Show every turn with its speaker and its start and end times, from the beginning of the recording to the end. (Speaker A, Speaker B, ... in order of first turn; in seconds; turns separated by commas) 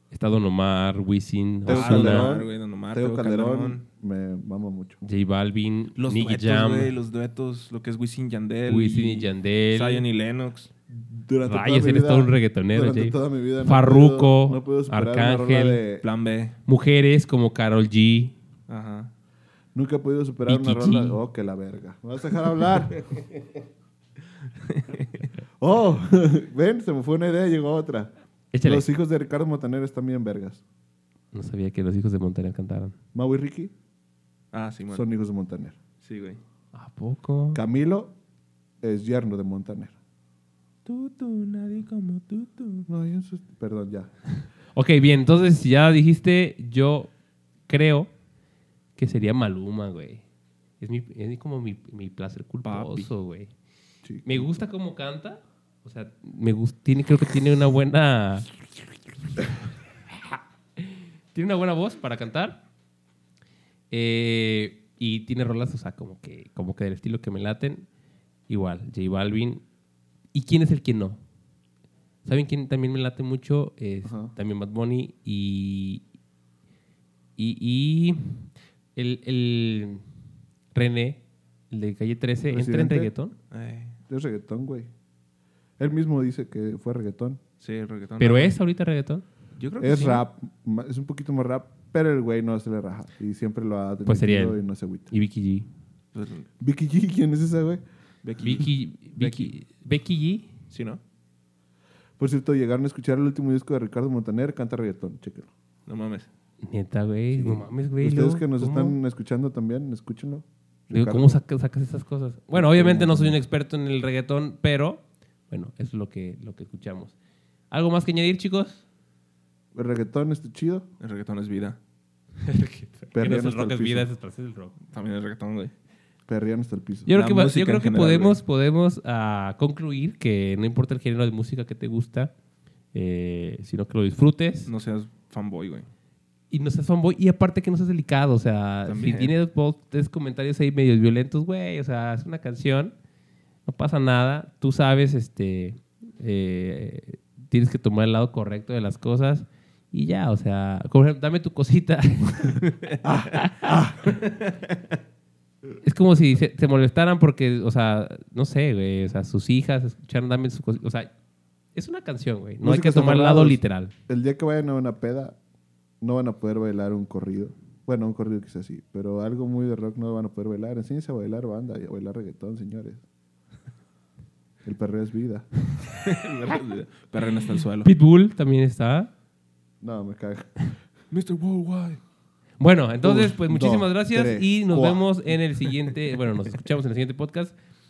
Speaker A: 0.1-2.3, Speaker B: 1.6-5.0, Speaker C: 1.7-3.8, Speaker A: 5.0-6.9, Speaker C: 6.0-10.7, Speaker A: 8.7-10.1, Speaker B: 10.9-16.1, Speaker A: 11.5-15.8, Speaker C: 16.0-16.6, Speaker A: 16.6-18.4, Speaker C: 18.7-19.1, Speaker B: 19.7-23.0, Speaker A: 20.5-21.2, Speaker C: 24.6-25.3, Speaker B: 25.6-28.1, Speaker A: 28.5-28.9, Speaker B: 28.6-30.6, Speaker A: 31.3-32.9, Speaker B: 33.1-33.7, Speaker C: 34.5-35.0, Speaker B: 34.9-35.8, Speaker C: 36.0-36.4, Speaker A: 36.7-37.6, Speaker B: 37.5-38.1, Speaker B: 38.8-40.0, Speaker C: 40.9-42.9, Speaker B: 42.9-44.1, Speaker A: 44.7-47.1, Speaker A: 47.7-48.1, Speaker A: 49.0-50.2, Speaker A: 50.8-53.5, Speaker C: 52.6-53.1, Speaker B: 54.0-54.5, Speaker A: 54.2-58.5, Speaker A: 60.1-62.6, Speaker A: 63.9-67.9, Speaker A: 68.5-69.6, Speaker A: 70.3-71.2, Speaker A: 72.2-76.0, Speaker B: 74.0-74.3, Speaker A: 77.4-80.0, Speaker A: 80.7-83.3, Speaker B: 82.5-83.1, Speaker C: 83.5-84.0, Speaker B: 84.1-84.9, Speaker B: 85.8-87.4, Speaker C: 87.6-88.5, Speaker A: 88.2-89.2, Speaker C: 89.6-90.2, Speaker B: 89.8-95.1, Speaker A: 94.0-95.7, Speaker C: 96.1-96.5, Speaker B: 96.6-97.8, Speaker C: 98.2-99.5, Speaker A: 98.4-100.5, Speaker C: 100.7-101.0, Speaker B: 102.2-105.5, Speaker C: 105.9-106.3, Speaker A: 106.6-109.0, Speaker B: 107.3-111.4, Speaker A: 110.9-117.1, Speaker B: 112.5-113.4, Speaker A: 117.7-118.8, Speaker B: 119.7-120.8, Speaker C: 121.0-121.8, Speaker A: 122.4-124.7, Speaker B: 123.1-124.1, Speaker C: 124.9-125.7, Speaker B: 126.3-127.1, Speaker A: 127.1-132.3, Speaker C: 127.1-128.4, Speaker A: 132.9-134.7, Speaker C: 134.7-135.9, Speaker A: 136.5-142.9, Speaker C: 138.8-139.3, Speaker A: 143.7-152.6, Speaker B: 153.0-154.1, Speaker A: 155.8-161.1, Speaker A: 161.7-163.9, Speaker B: 162.6-165.4, Speaker B: 166.0-173.0, Speaker B: 174.6-175.5, Speaker C: 176.0-177.9, Speaker A: 177.8-179.1, Speaker B: 179.8-180.6, Speaker C: 181.1-182.0, Speaker A: 182.6-187.5, Speaker B: 183.0-185.0